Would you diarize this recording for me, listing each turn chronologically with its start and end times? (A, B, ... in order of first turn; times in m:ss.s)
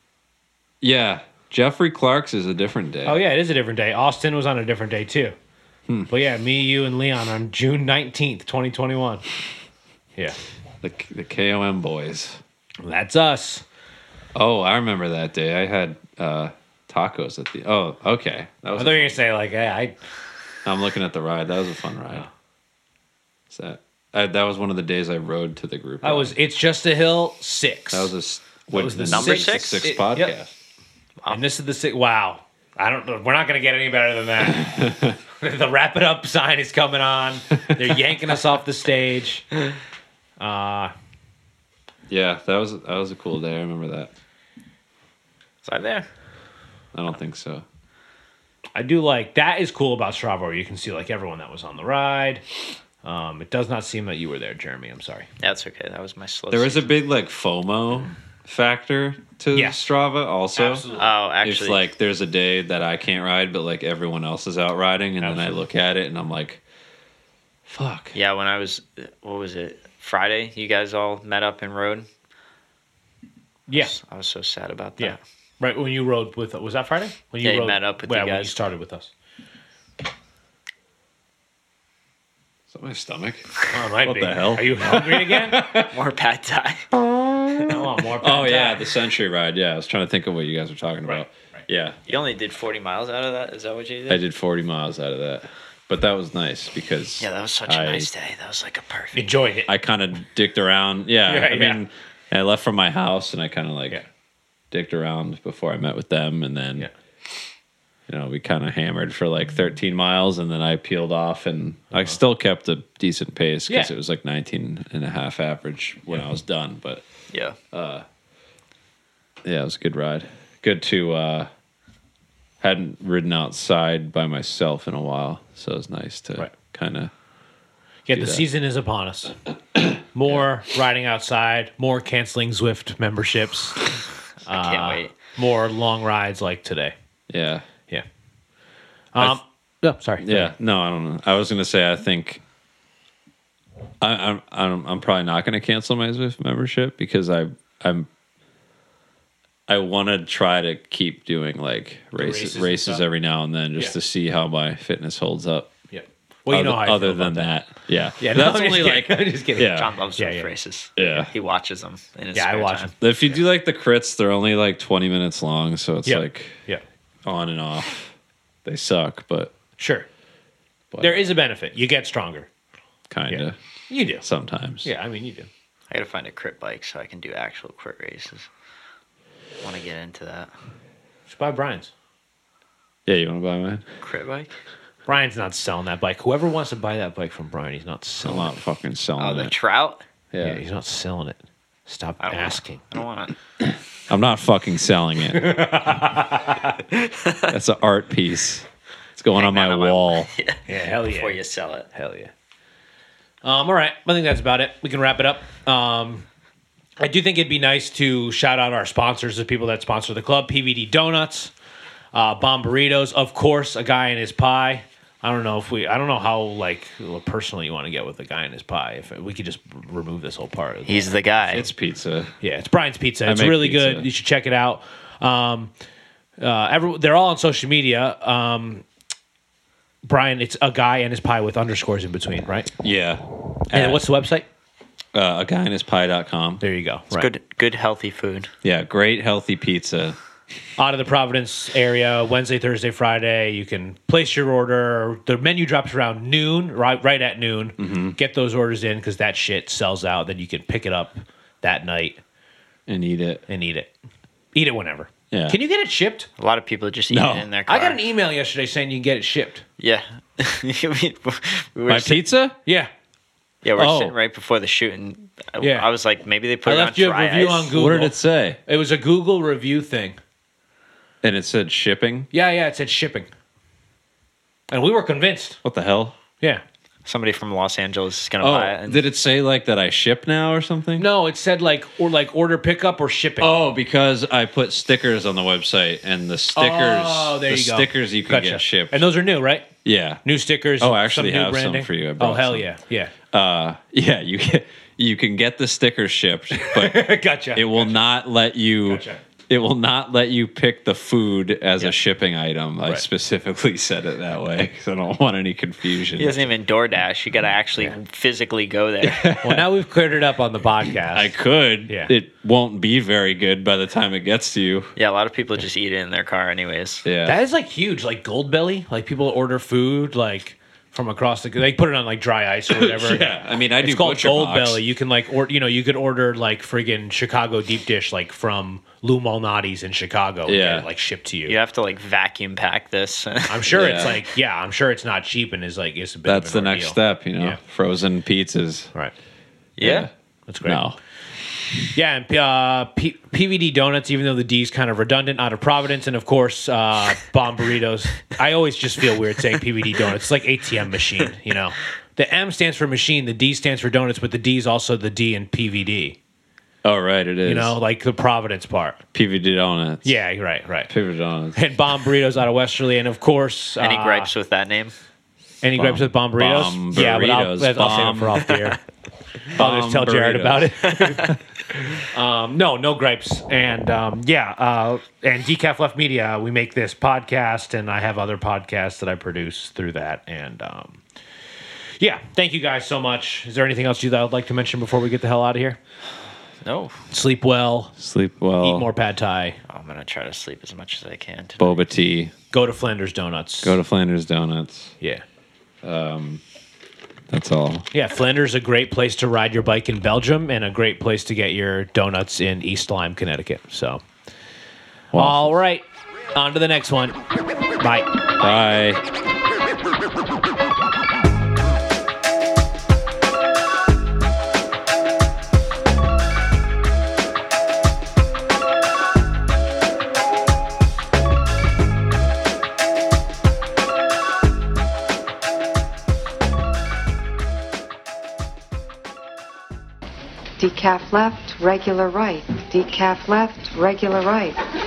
0:00.8-0:03.2 A
0:03.0-0:05.3 B
0:06.1-0:09.2 B
0:10.8-0:12.4 A
0:12.8-0:13.6 B
0:14.3-0:19.2 A
0:18.8-0:19.9 B
0:20.6-0:22.3 A
0:23.5-0:26.3 A
0:26.0-0:28.1 B
0:27.9-0:30.5 A
0:28.7-0:30.3 B
0:29.1-0:29.9 C
0:31.3-0:39.5 B
0:34.6-0:35.2 A
0:40.4-0:40.9 B
0:42.1-0:44.1 A
0:45.6-0:46.1 C
0:46.9-0:47.6 A
0:48.7-0:52.4 B
0:53.0-0:55.3 B
0:55.4-0:56.8 C
0:56.5-1:00.8 A
0:59.5-0:59.8 B
1:00.6-1:01.1 B
1:00.9-1:01.8 C
1:01.4-1:06.6 A
1:05.2-1:05.5 B
1:07.7-1:08.1 A
1:08.1-1:12.1 C
1:13.7-1:13.9 B
1:13.7-1:15.2 C
1:15.0-1:19.1 B
1:17.4-1:18.5 C
1:22.7-1:25.9 A
1:23.7-1:25.6 B
1:25.9-1:26.9 C
1:26.9-1:32.0 A
1:27.6-1:28.8 B
1:32.1-1:34.2 C
1:34.1-1:38.1 A
1:37.2-1:39.3 C
1:39.1-1:39.7 B
1:39.7-1:44.0 A
1:41.3-1:41.8 B
1:44.7-1:46.9 A
1:48.1-1:57.0 A
1:57.3-1:57.6 C
1:57.7-1:58.0 A
1:59.4-2:01.5 A
2:02.6-2:07.1 A
2:08.1-2:09.4 B
2:08.1-2:08.4 A
2:10.1-2:13.9 B
2:14.4-2:15.1 C
2:14.4-2:16.9 B
2:17.3-2:17.7 A
2:19.1-2:20.5 B
2:20.2-2:22.4 A
2:24.0-2:28.1 A
2:29.7-2:35.7 A
2:32.2-2:33.0 B
2:35.9-2:37.5 B
2:36.5-2:39.9 A
2:38.2-2:40.5 B
2:39.6-2:42.9 C
2:41.0-2:41.3 A
2:42.3-2:42.9 B
2:43.0-2:46.6 A
2:46.0-2:46.8 B
2:47.2-2:48.1 A
2:48.6-2:49.5 A
2:49.8-2:50.1 B
2:50.9-2:51.2 A
2:51.0-2:52.5 B
2:53.1-2:53.6 A
2:53.3-2:54.2 B
2:54.2-2:54.9 A
2:54.8-2:55.5 B
2:55.9-2:58.5 C
2:59.6-3:00.5 C
3:01.3-3:01.9 B
3:03.0-3:03.8 A
3:04.0-3:04.5 C
3:05.1-3:08.5 B
3:08.2-3:09.5 A
3:09.2-3:10.0 C
3:10.3-3:10.6 A
3:10.4-3:12.8 B
3:12.2-3:13.4 C
3:13.7-3:15.5 A
3:15.3-3:16.8 B
3:17.0-3:17.5 C
3:17.5-3:20.3 A
3:19.3-3:21.9 C
3:20.7-3:21.4 B
3:21.9-3:22.3 B
3:23.4-3:26.2 B
3:27.0-3:31.5 B
3:32.1-3:41.2 B
3:40.8-3:41.7 C
3:41.5-3:42.3 A
3:42.4-3:45.7 B
3:43.2-3:44.1 A
3:46.4-3:48.8 B
3:50.0-3:52.7 B
3:52.8-3:54.0 A
3:53.7-3:54.4 B
3:55.1-3:56.6 A
3:56.6-3:57.3 B
3:57.1-3:58.5 C
3:58.6-4:00.2 A
4:00.8-4:12.2 B
4:07.8-4:08.2 A
4:12.9-4:13.4 A
4:13.5-4:13.9 B
4:14.5-4:16.3 B
4:15.3-4:15.6 A
4:16.4-4:18.0 C
4:17.1-4:17.5 A
4:17.7-4:19.6 B
4:19.8-4:22.2 C
4:21.9-4:22.6 A
4:22.6-4:22.9 B
4:23.6-4:27.7 C
4:23.7-4:24.2 A
4:25.6-4:25.9 B
4:26.6-4:30.2 B
4:27.7-4:28.6 A
4:31.2-4:32.3 A
4:32.3-4:33.3 B
4:34.7-4:35.6 B
4:35.6-4:36.2 A
4:37.0-4:39.0 C
4:38.4-4:41.1 A
4:41.0-4:43.6 B
4:43.4-4:49.1 A
4:46.5-4:49.7 B
4:49.8-4:50.2 A
4:50.2-4:53.1 B
4:50.8-4:52.6 A
4:53.3-5:06.5 A
4:56.5-4:58.0 B
4:58.8-4:59.2 B
5:06.2-5:09.4 C
5:09.0-5:09.6 A
5:09.4-5:11.3 B
5:11.1-5:14.9 A
5:15.0-5:17.0 C
5:17.0-5:17.4 A
5:17.2-5:31.6 B
5:22.7-5:24.8 A
5:30.4-5:30.9 A
5:31.4-5:34.1 C
5:33.5-5:37.6 B
5:33.6-5:34.2 A
5:36.2-5:38.9 A
5:39.8-5:40.1 C
5:39.8-5:40.1 A
5:40.5-5:40.8 B
5:40.6-5:41.0 A
5:41.9-5:56.2 B
5:56.8-5:57.8 A
5:57.4-5:59.0 B
5:59.1-6:00.1 A
6:00.0-6:00.9 B
6:00.9-6:01.6 A
6:01.5-6:04.3 B
6:03.8-6:04.9 C
6:05.6-6:08.8 B
6:05.8-6:08.6 A
6:09.5-6:21.0 B
6:09.5-6:11.3 A
6:22.0-6:25.8 B
6:26.6-6:27.0 C
6:27.1-6:27.9 B
6:28.0-6:28.9 A
6:28.6-6:29.6 B
6:29.7-6:31.8 C
6:31.6-6:32.3 A
6:32.5-6:33.8 B
6:33.6-6:34.9 A
6:35.8-6:36.4 A
6:37.3-6:37.8 A
6:37.9-6:44.0 B
6:45.1-6:45.5 A
6:45.1-6:47.2 B
6:47.8-6:48.1 B
6:48.4-6:49.0 A
7:10.6-7:14.6 D